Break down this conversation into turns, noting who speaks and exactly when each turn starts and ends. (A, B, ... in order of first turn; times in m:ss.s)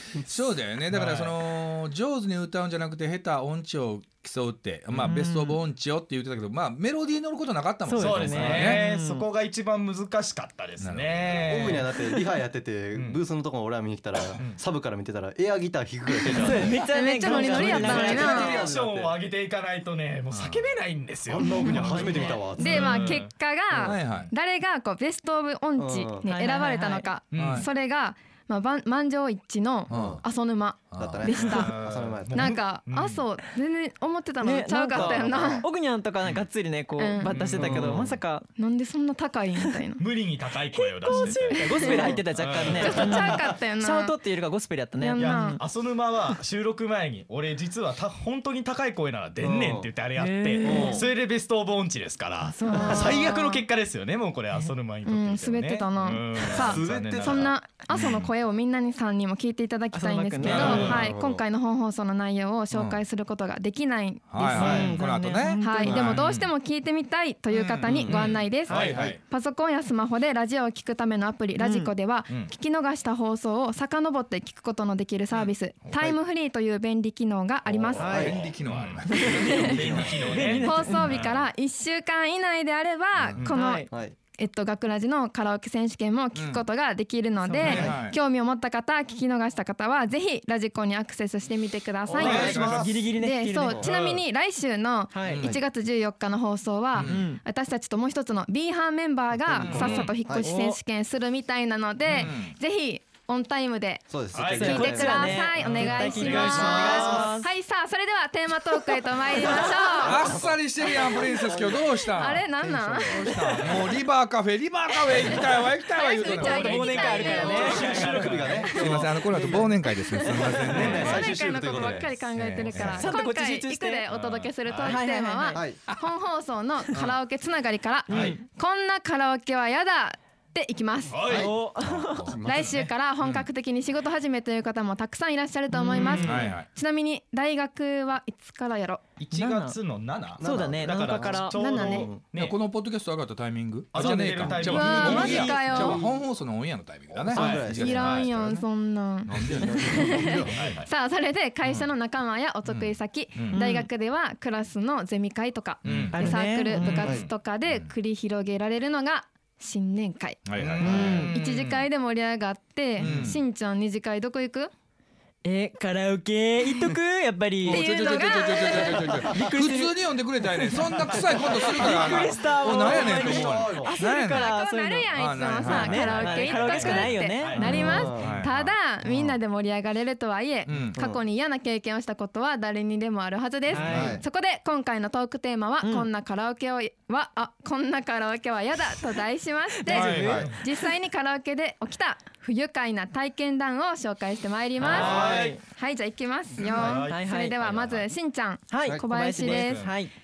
0:00.2-0:08.8 A
0:00.9-0:01.4 B
0:05.0-0:05.6 C
0:07.8-0:09.2 C
0:08.0-0:12.2 B
0:10.8-0:11.5 A
0:11.3-0:16.8 D
0:12.9-0:13.2 B
0:14.3-0:14.6 B
0:16.3-0:16.7 B
0:16.4-0:18.5 C
0:16.8-0:18.6 E
0:17.2-0:23.3 B
0:17.5-0:19.2 D
0:20.3-0:20.7 A
0:21.3-0:23.0 D
0:21.6-0:31.8 E
0:22.8-0:23.1 A
0:23.7-0:24.0 D
0:23.8-0:24.3 A
0:25.8-0:26.3 D
0:26.2-0:27.1 C
0:27.3-0:27.7 B
0:27.3-0:27.7 A
0:29.9-0:30.2 D
0:29.9-0:30.2 A
0:30.9-0:31.6 A
0:31.0-0:32.4 D
0:31.5-0:33.3 B
0:32.3-0:35.7 E
0:34.4-0:38.5 C
0:35.0-0:35.4 B
0:35.0-0:35.6 D
0:36.2-0:36.5 B
0:37.0-0:37.4 E
0:37.2-0:38.2 B
0:37.6-0:38.1 D
0:38.6-0:40.0 E
0:40.0-0:43.4 B
0:41.0-0:45.5 C
0:41.1-0:42.2 E
0:42.8-0:44.2 E
0:43.0-0:43.4 D
0:45.0-0:45.6 E
0:45.2-0:57.6 B
0:49.4-0:49.9 D
0:50.2-0:51.0 C
0:50.6-0:51.1 D
0:52.4-0:53.2 C
0:52.7-0:53.6 E
0:55.0-1:04.9 E
0:56.5-0:57.5 D
0:57.9-0:58.3 A
0:59.9-1:01.0 C
1:00.4-1:01.0 B
1:00.5-1:00.8 A
1:00.5-1:01.4 D
1:02.7-1:03.0 A
1:04.3-1:06.2 A
1:04.4-1:06.0 C
1:05.6-1:18.2 E
1:05.8-1:06.2 D
1:06.2-1:06.5 B
1:07.5-1:09.2 A
1:07.8-1:09.0 B
1:11.6-1:11.9 C
1:17.6-1:18.4 D
1:17.9-1:19.1 B
1:18.0-1:18.4 C
1:18.1-1:20.6 A
1:19.1-1:21.2 C
1:19.1-1:19.9 E
1:19.7-1:21.5 B
1:20.6-1:51.2 E
1:23.1-1:23.5 A
1:23.5-1:23.9 C
1:23.9-1:24.2 D
1:26.3-1:26.6 A
1:27.4-1:27.9 C
1:27.6-1:28.2 A
1:32.1-1:33.1 D
1:32.2-1:32.6 B
1:32.2-1:33.8 C
1:32.2-1:32.9 A
1:33.7-1:33.9 D
1:33.9-1:34.2 A
1:35.1-1:35.5 C
1:35.2-1:35.6 A
1:36.9-1:37.2 A
1:37.0-1:37.4 C
1:39.3-1:40.5 D
1:39.6-1:40.0 A
1:39.8-1:40.1 B
1:40.4-1:40.8 C
1:42.1-1:42.6 A
1:44.1-1:45.5 D
1:44.3-1:44.8 B
1:44.5-1:47.5 C
1:45.6-1:47.0 B
1:46.2-1:47.3 D
1:50.0-1:52.4 A
1:50.1-1:51.8 D
1:52.0-1:53.3 E
1:52.4-1:53.4 D
1:53.1-1:57.2 A
1:54.9-1:57.9 E
1:56.2-1:58.1 C
1:57.1-1:58.8 B
1:57.2-2:03.0 D
1:57.9-2:01.2 A
1:59.8-2:11.4 E
2:00.6-2:01.1 B
2:00.9-2:01.1 C
2:02.4-2:03.1 A
2:02.9-2:04.0 C
2:04.1-2:04.5 A
2:04.6-2:05.0 B
2:04.8-2:05.6 C
2:08.1-2:08.4 C
2:08.1-2:08.4 B
2:11.1-2:11.7 B
2:11.3-2:12.4 C
2:11.8-2:13.5 A
2:12.1-2:12.7 D
2:12.4-2:19.0 E
2:15.8-2:16.1 C
2:15.8-2:16.6 B
2:16.1-2:16.7 A
2:19.2-2:22.6 B
2:19.3-2:19.8 C
2:20.4-2:22.2 D
2:20.4-2:21.8 C
2:21.5-2:22.2 E
2:22.2-2:28.6 A
2:23.9-2:25.7 B
2:24.4-2:26.2 D
2:24.6-2:26.0 E
2:27.1-2:28.2 D
2:27.3-2:28.3 B
2:27.3-2:40.6 E
2:29.2-2:30.2 A
2:29.5-2:30.6 D
2:30.5-2:30.9 B
2:32.6-2:33.6 A
2:33.5-2:33.9 C
2:35.8-2:36.3 A
2:36.1-2:37.1 C
2:36.8-2:37.9 A
2:40.4-2:41.0 A
2:40.6-2:41.9 B
2:40.8-2:41.3 C
2:40.9-2:41.1 D
2:41.2-2:44.7 E
2:43.0-2:43.4 A
2:43.1-2:43.4 B
2:45.4-2:48.0 C
2:47.6-2:54.5 A
2:47.7-2:49.2 E
2:48.7-2:58.2 C
2:49.0-2:49.2 D
2:51.0-2:52.1 B
2:52.6-2:53.9 D
2:54.2-3:19.9 E
2:55.1-2:56.5 A
2:56.6-2:57.8 B
2:57.6-2:58.7 A
2:57.7-2:58.4 D
3:00.6-3:01.0 A
3:00.8-3:01.2 D
3:03.7-3:04.2 C
3:03.8-3:04.2 D
3:03.8-3:04.1 B
3:05.8-3:06.1 C
3:09.7-3:10.8 C
3:09.9-3:10.4 A
3:09.9-3:10.6 B
3:14.8-3:15.6 B
3:14.8-3:15.6 C
3:16.6-3:18.1 B
3:16.9-3:17.6 C
3:18.7-3:20.1 C
3:19.4-3:19.9 B